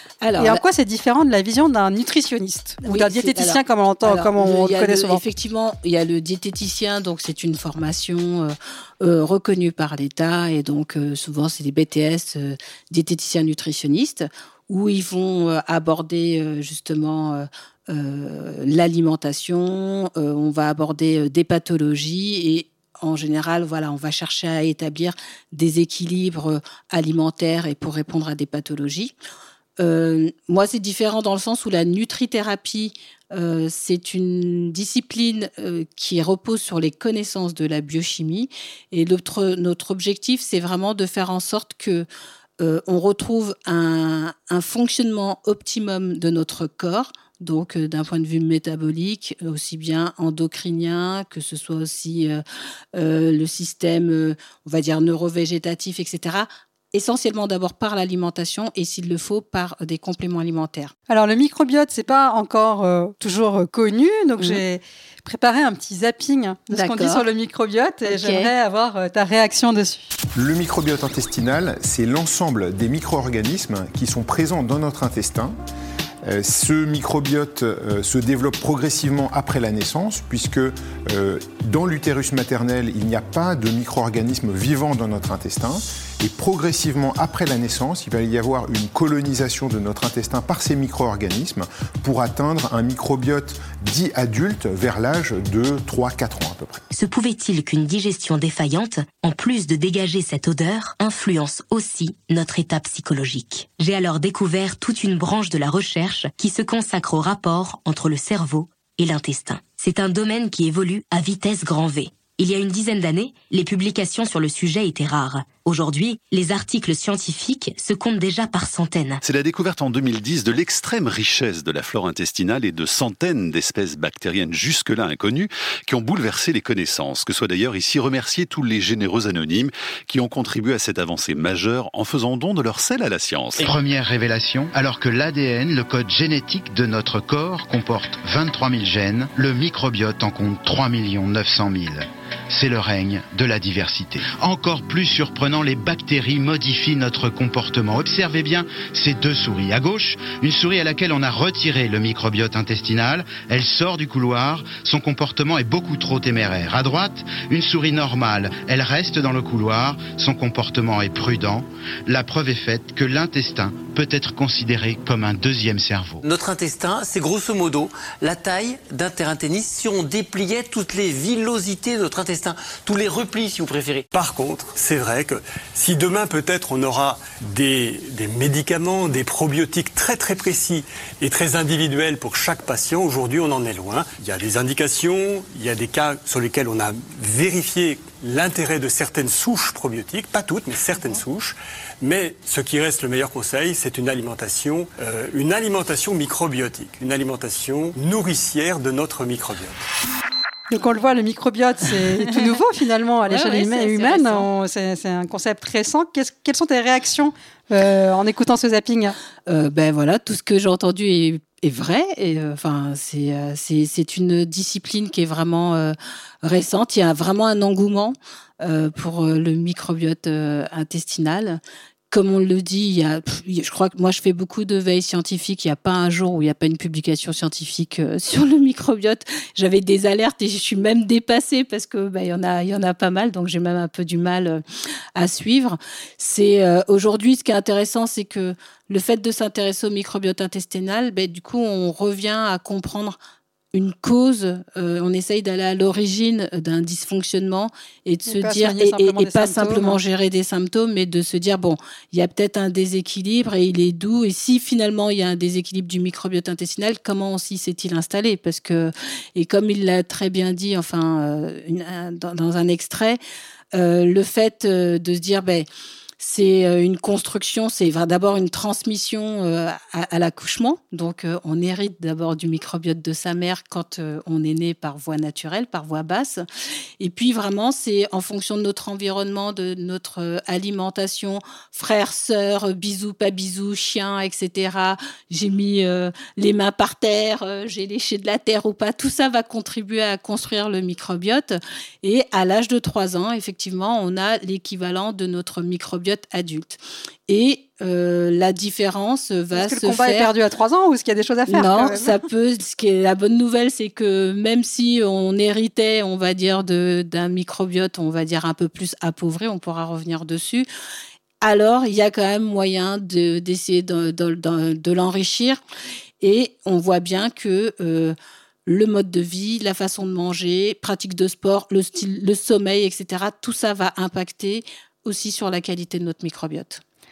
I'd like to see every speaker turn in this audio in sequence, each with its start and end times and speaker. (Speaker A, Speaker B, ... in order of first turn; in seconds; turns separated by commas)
Speaker A: 0.2-0.6, Speaker B: 0.4-5.2, Speaker A: 2.8-29.1, Speaker A: 29.8-42.1, Speaker A: 42.6-52.4, Speaker A: 52.9-60.9, Speaker B: 61.1-70.1, Speaker A: 66.7-67.2, Speaker A: 68.1-68.5, Speaker C: 70.3-75.5, Speaker C: 76.2-96.8, Speaker D: 96.9-119.2, Speaker E: 119.2-133.7, Speaker F: 133.6-166.2, Speaker G: 166.2-174.1, Speaker H: 174.1-199.8, Speaker B: 200.7-209.2, Speaker A: 203.3-204.5, Speaker A: 209.5-234.6, Speaker A: 235.2-243.2, Speaker A: 243.7-263.2, Speaker B: 248.3-250.0, Speaker A: 263.7-265.7, Speaker A: 266.2-276.4, Speaker A: 277.0-300.3, Speaker B: 299.5-302.2, Speaker A: 301.5-310.7, Speaker A: 311.4-315.6, Speaker A: 316.2-326.8